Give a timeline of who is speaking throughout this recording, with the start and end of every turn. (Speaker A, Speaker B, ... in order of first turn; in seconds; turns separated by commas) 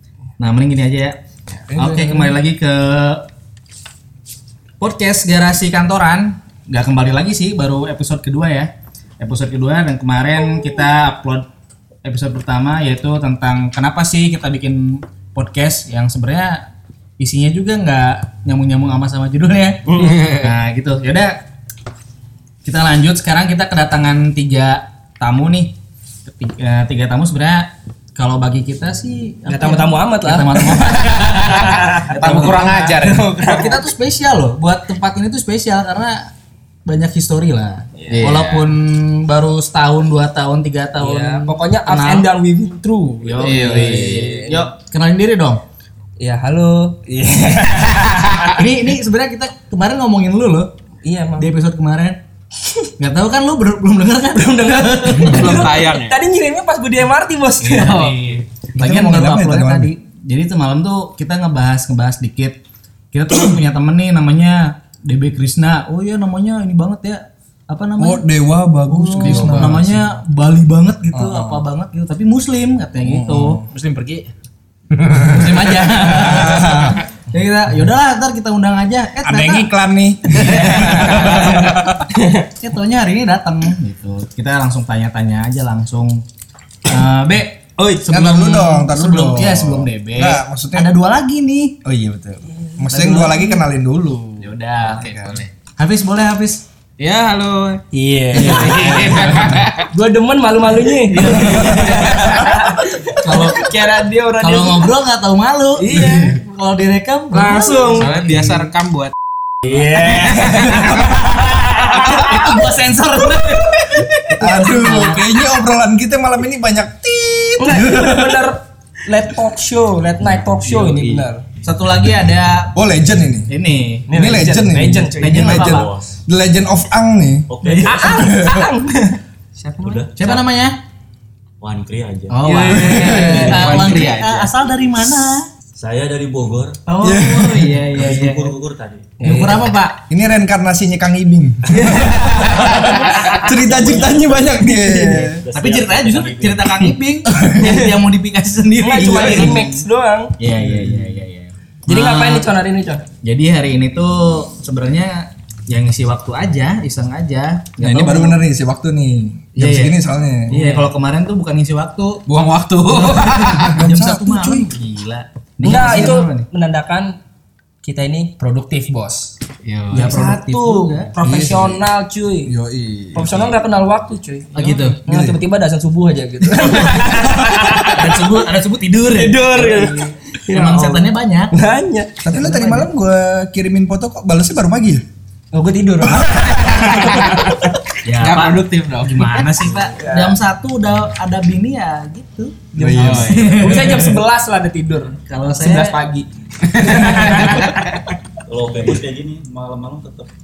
Speaker A: 0.4-1.2, Speaker B: 1.7-2.4, Speaker A: 1.7-3.2, Speaker A: 4.8-11.5, Speaker A: 12.0-16.6, Speaker A: 17.2-21.3, Speaker C: 20.0-20.5, Speaker A: 22.6-25.7, Speaker A: 26.3-31.3, Speaker D: 29.5-33.8, Speaker C: 31.1-33.3, Speaker A: 32.1-36.3, Speaker A: 36.9-42.3, Speaker D: 38.0-38.3, Speaker C: 38.1-38.7, Speaker D: 41.0-43.7, Speaker A: 43.2-45.6, Speaker C: 43.4-44.7, Speaker D: 46.2-48.6, Speaker C: 48.0-48.4, Speaker A: 48.5-50.7, Speaker D: 51.0-51.5, Speaker A: 51.4-52.2, Speaker A: 53.0-55.6, Speaker D: 54.3-58.1, Speaker C: 55.2-56.1, Speaker B: 55.3-55.5, Speaker A: 57.6-62.6, Speaker C: 57.7-58.1, Speaker B: 58.8-59.9, Speaker A: 63.1-68.2, Speaker B: 68.0-69.9, Speaker A: 68.9-74.3, Speaker C: 69.2-70.0, Speaker B: 71.1-71.6, Speaker B: 73.0-73.7, Speaker B: 75.0-77.0, Speaker A: 75.1-79.7, Speaker B: 79.2-82.0, Speaker A: 80.3-81.7, Speaker D: 80.5-82.5, Speaker A: 82.6-86.2, Speaker A: 86.8-91.8, Speaker D: 87.8-88.1, Speaker B: 88.1-90.9, Speaker B: 91.8-95.4, Speaker D: 92.5-93.2, Speaker A: 92.9-93.6, Speaker C: 94.4-95.5, Speaker A: 95.8-97.8, Speaker D: 97.9-99.2, Speaker B: 98.3-99.7, Speaker A: 98.4-99.5, Speaker C: 98.4-99.9, Speaker D: 99.9-104.9, Speaker A: 101.1-102.1, Speaker B: 101.4-101.9, Speaker A: 103.2-103.7, Speaker A: 104.4-108.7, Speaker D: 105.8-106.4, Speaker D: 107.3-108.1, Speaker C: 108.0-109.1, Speaker D: 109.7-112.6, Speaker C: 110.2-111.0, Speaker A: 110.9-115.4, Speaker B: 114.4-118.4, Speaker D: 117.6-121.4, Speaker E: 120.6-121.2, Speaker A: 121.6-122.7, Speaker B: 122.8-123.5, Speaker A: 123.5-124.1, Speaker D: 124.1-125.7, Speaker B: 124.1-127.5, Speaker A: 125.2-125.9, Speaker E: 125.6-126.1, Speaker E: 127.5-128.1, Speaker A: 127.6-128.3, Speaker D: 127.8-130.4, Speaker B: 128.1-128.7, Speaker E: 129.8-130.2, Speaker A: 130.2-130.8, Speaker E: 131.6-132.4, Speaker A: 132.3-135.5, Speaker C: 132.4-134.5, Speaker B: 132.9-133.4, Speaker E: 133.2-134.2, Speaker E: 135.8-136.9, Speaker A: 136.9-138.6, Speaker B: 137.0-137.9, Speaker E: 137.9-139.2, Speaker D: 139.2-139.7, Speaker C: 139.2-139.5, Speaker A: 139.2-140.0, Speaker B: 140.1-145.4, Speaker D: 142.0-143.7, Speaker C: 142.3-143.0, Speaker E: 142.8-146.7, Speaker A: 144.8-149.8, Speaker D: 147.6-148.0, Speaker D: 148.8-150.3, Speaker B: 149.0-149.7, Speaker A: 150.4-152.4, Speaker B: 150.6-151.2, Speaker D: 151.9-153.0, Speaker A: 153.2-158.4, Speaker B: 157.8-160.5, Speaker A: 159.6-159.9, Speaker A: 160.5-162.2, Speaker C: 162.3-163.8, Speaker A: 162.9-166.5, Speaker B: 163.5-164.7, Speaker D: 165.6-167.1, Speaker D: 167.8-169.3, Speaker C: 169.7-170.2, Speaker A: 169.9-171.1, Speaker D: 169.9-172.5, Speaker B: 171.2-171.9, Speaker B: 172.5-173.4, Speaker D: 173.1-178.1, Speaker A: 174.5-175.0, Speaker B: 175.1-175.4, Speaker A: 177.9-181.5, Speaker D: 179.2-182.1, Speaker B: 182.2-185.0, Speaker A: 182.3-182.9, Speaker D: 185.5-187.8, Speaker B: 186.2-186.6, Speaker C: 186.8-187.4, Speaker A: 188.0-194.2, Speaker C: 188.2-189.6, Speaker D: 189.9-190.4, Speaker B: 192.8-193.5, Speaker D: 192.8-198.2, Speaker C: 192.9-193.6, Speaker A: 195.2-196.0, Speaker C: 196.7-197.8, Speaker E: 198.5-200.3